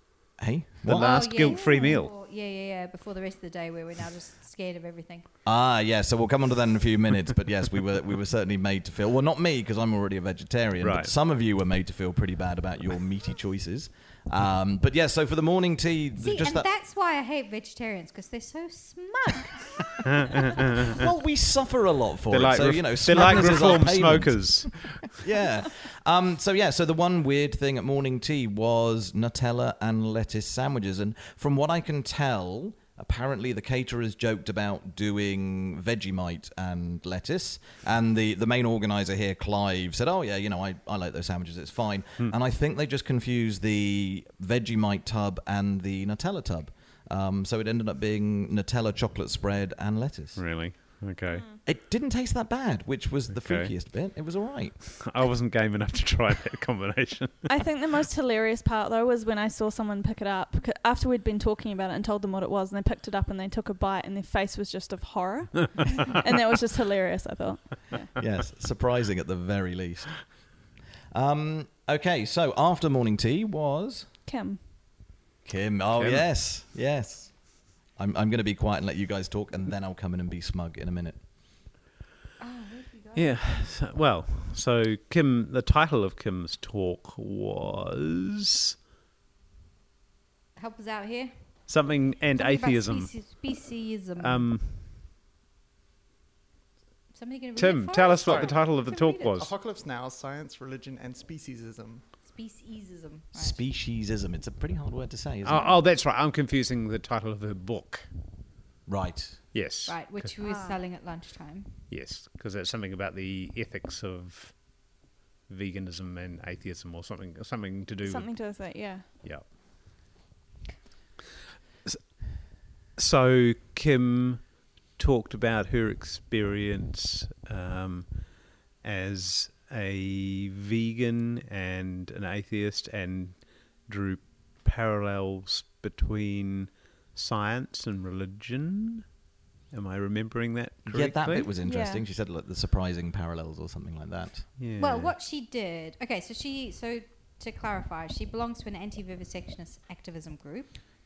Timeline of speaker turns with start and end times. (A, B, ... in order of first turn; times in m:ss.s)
0:00.4-0:01.5 A
0:00.9-0:02.1 B
0:00.9-0:05.3 C
0:05.4-0:16.7 A
0:10.8-0:11.1 B
0:16.2-0:19.8 C
0:21.0-0:51.0 A
0:22.3-0:25.0 B
0:50.4-0:51.4 B
0:51.3-0:51.6 D
0:51.6-0:55.1 A
0:53.3-0:54.3 B
0:55.0-0:57.5 B
0:57.5-1:08.1 D
1:08.2-1:14.1 A
1:14.3-1:14.6 D
1:15.4-1:21.6 A
1:16.0-1:16.3 B
1:22.4-1:23.4 C
1:23.2-1:28.3 B
1:30.6-1:34.6 C
1:31.7-1:33.6 B
1:34.2-1:35.0 B
1:37.1-1:39.5 C
1:37.6-1:39.5 B
1:38.2-1:38.8 E
1:39.4-1:42.0 E
1:42.2-1:43.6 C
1:43.3-1:45.7 A
1:45.4-1:48.1 B
1:48.9-1:49.5 A
1:49.5-1:50.3 B
1:49.9-1:51.8 C
1:50.4-1:50.8 D
1:51.9-1:55.0 B
1:55.5-1:59.5 B
1:58.0-1:59.1 D
2:01.8-2:02.4 B
2:02.9-2:19.1 B
2:19.7-2:21.5 B
2:20.9-2:24.6 A
2:21.6-2:22.1 D
2:24.6-2:25.2 B
2:24.8-2:30.8 C